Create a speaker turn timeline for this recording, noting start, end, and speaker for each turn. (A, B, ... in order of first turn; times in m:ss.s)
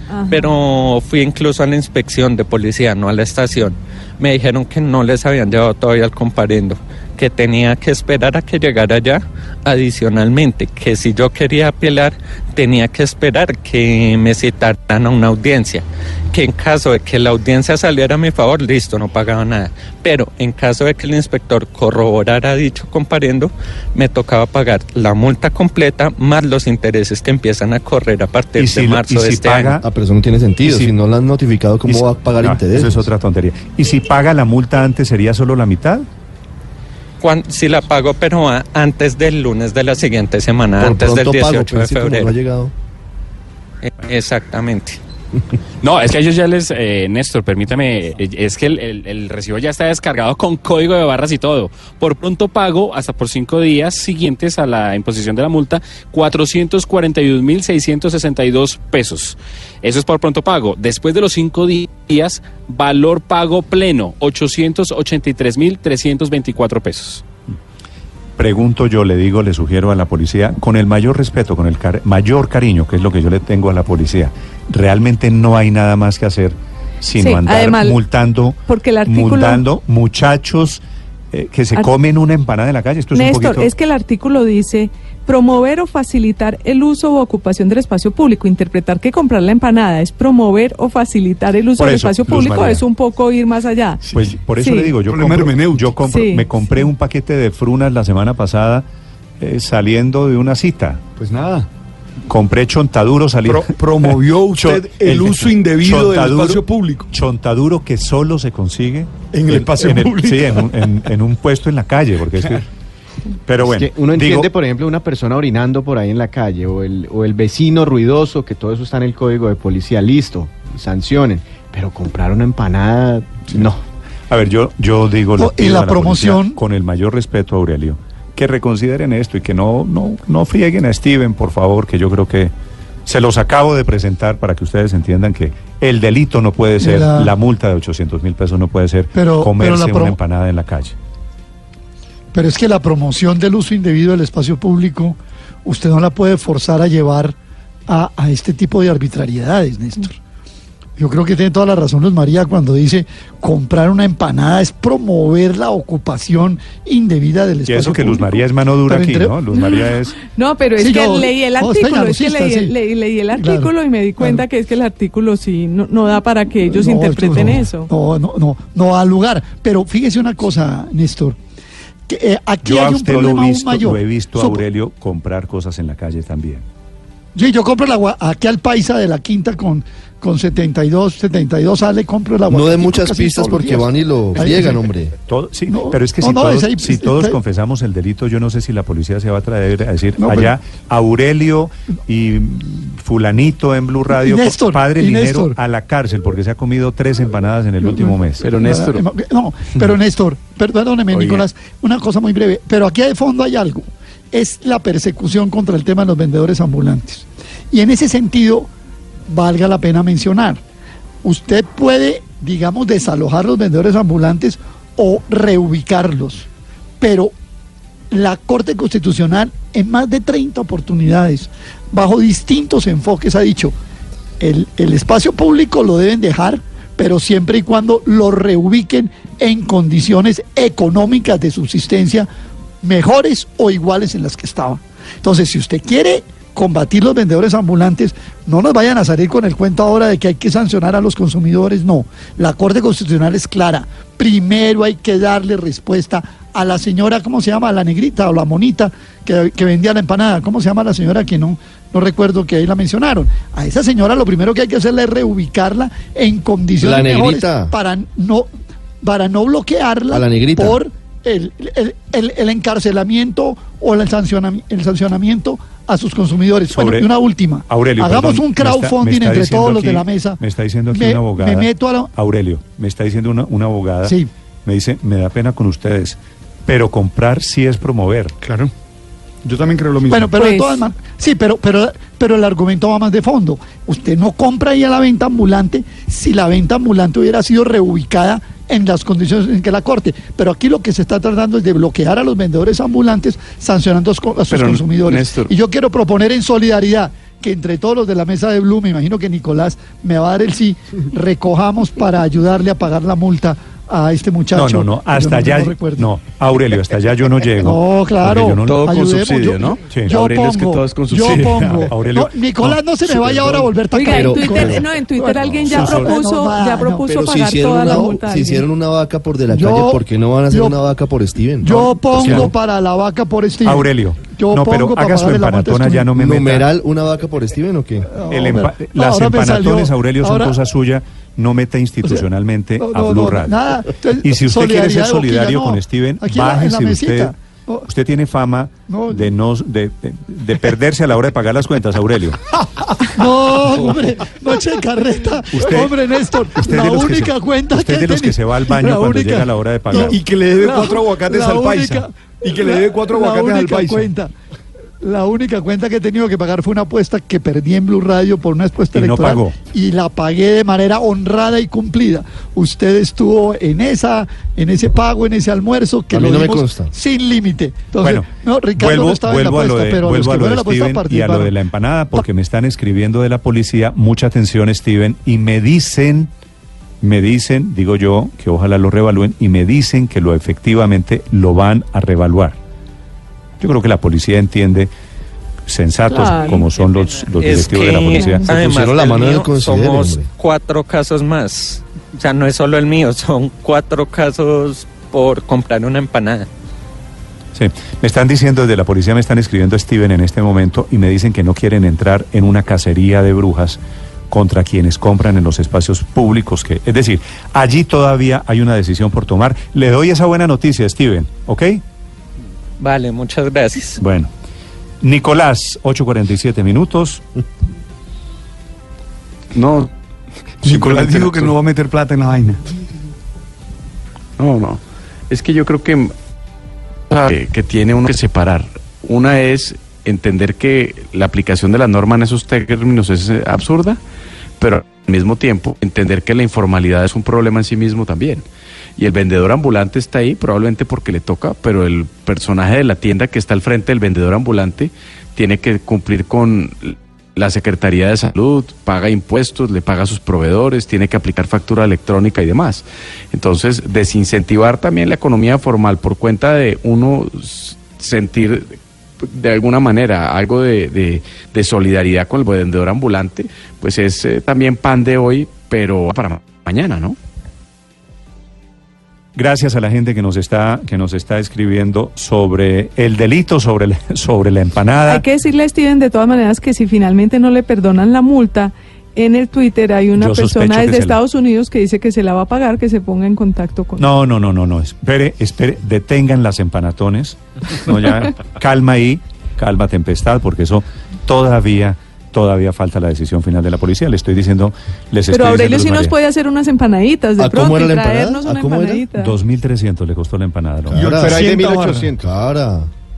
0:00.1-0:00.5 A
0:00.3-0:29.8 B
0:28.6-0:29.8 C
0:29.8-0:33.1 D
0:30.6-0:30.9 C
0:31.9-0:36.1 C
0:37.2-0:42.3 B
0:40.8-0:42.7 D
0:43.8-0:45.0 B
0:45.8-1:07.2 E
1:08.4-1:23.7 C
1:17.2-1:18.0 A
1:18.7-1:19.6 A
1:23.1-1:34.0 A
1:31.8-1:32.8 C
1:34.1-1:38.9 C
1:34.6-1:35.0 A
1:35.0-1:36.0 F
1:36.0-1:36.5 A
1:39.4-1:41.0 C
1:41.2-1:41.7 F
1:42.3-1:52.7 C
1:43.5-1:47.1 F
1:49.3-1:50.7 F
1:53.5-1:54.5 C
1:53.6-2:03.8 G
2:04.3-2:12.5 C
2:05.4-2:06.6 H
2:13.1-2:21.0 C
2:16.8-2:17.3 H
2:19.1-2:20.2 H
2:22.3-2:27.4 H
2:27.9-2:30.2 H
2:31.0-2:39.4 H
2:37.7-2:40.2 C
2:39.5-2:47.9 A
2:40.8-2:42.7 H
2:43.4-2:44.4 H
2:46.7-2:51.4 H
2:52.1-2:54.6 H
2:52.6-2:56.6 C
2:57.4-3:04.9 H
3:02.5-3:05.1 D
3:05.3-3:18.4 C
3:05.7-3:07.4 H
3:10.2-3:10.5 H
3:14.1-3:15.6 H
3:17.8-3:28.7 H
3:18.4-3:19.0 I
3:21.1-3:21.5 I
3:29.3-3:30.6 H
3:31.2-3:36.5 H
3:37.0-3:37.3 H
3:38.1-3:43.7 H
3:44.4-3:52.3 H
3:52.8-4:18.5 H
4:16.8-4:17.7 D
4:19.0-4:32.1 H
4:20.1-4:20.8 D
4:26.7-4:27.1 C
4:27.7-4:38.4 C
4:34.0-4:34.3 H
4:38.4-4:38.7 F
4:39.4-4:40.4 F
4:40.1-5:06.1 H
4:40.4-4:40.8 A
4:54.5-4:55.5 I
5:04.5-5:08.9 C
5:07.6-5:17.1 H
5:08.6-5:12.0 I
5:09.9-5:10.2 C
5:11.9-5:13.0 C
5:13.3-5:13.7 I
5:13.9-5:18.7 A
5:14.0-5:14.9 D
5:15.4-5:15.9 D
5:17.1-5:22.5 D
5:19.5-5:20.8 H
5:21.6-5:26.1 H
5:22.1-5:22.5 C
5:23.6-5:26.7 C
5:26.2-5:28.1 D
5:28.1-5:30.6 H
5:28.3-5:33.6 C
5:32.8-5:37.9 H
5:34.2-5:37.3 C
5:37.9-5:42.4 C
5:38.9-5:39.3 H
5:43.1-5:54.3 H
5:45.5-5:50.2 C
5:50.0-5:54.1 F
5:55.0-6:11.5 H
5:58.9-5:59.6 C
6:06.1-6:06.9 D
6:08.0-6:16.3 C
6:17.0-6:22.6 C
6:23.6-6:24.9 C
6:25.7-6:28.5 C
6:26.1-6:26.7 A
6:26.3-6:36.5 B
6:28.1-6:28.4 A
6:28.4-6:30.3 D
6:37.6-6:51.8 C
6:52.8-6:54.0 B
6:54.0-6:54.3 C
6:55.0-6:57.2 C
6:59.6-6:59.9 I
7:00.6-7:02.7 F
7:00.6-7:01.6 I
7:04.4-7:06.1 I
7:07.1-7:14.0 I
7:14.6-7:18.4 I
7:19.0-7:47.2 I
7:49.4-7:55.2 C
7:55.1-8:04.0 A
8:00.2-8:01.2 C
8:04.0-8:16.1 C
8:15.3-8:19.4 A
8:17.4-8:19.1 D
8:19.1-8:21.1 C
8:20.9-8:21.6 D
8:20.9-8:22.2 F
8:21.2-8:22.2 G
8:22.1-8:22.9 D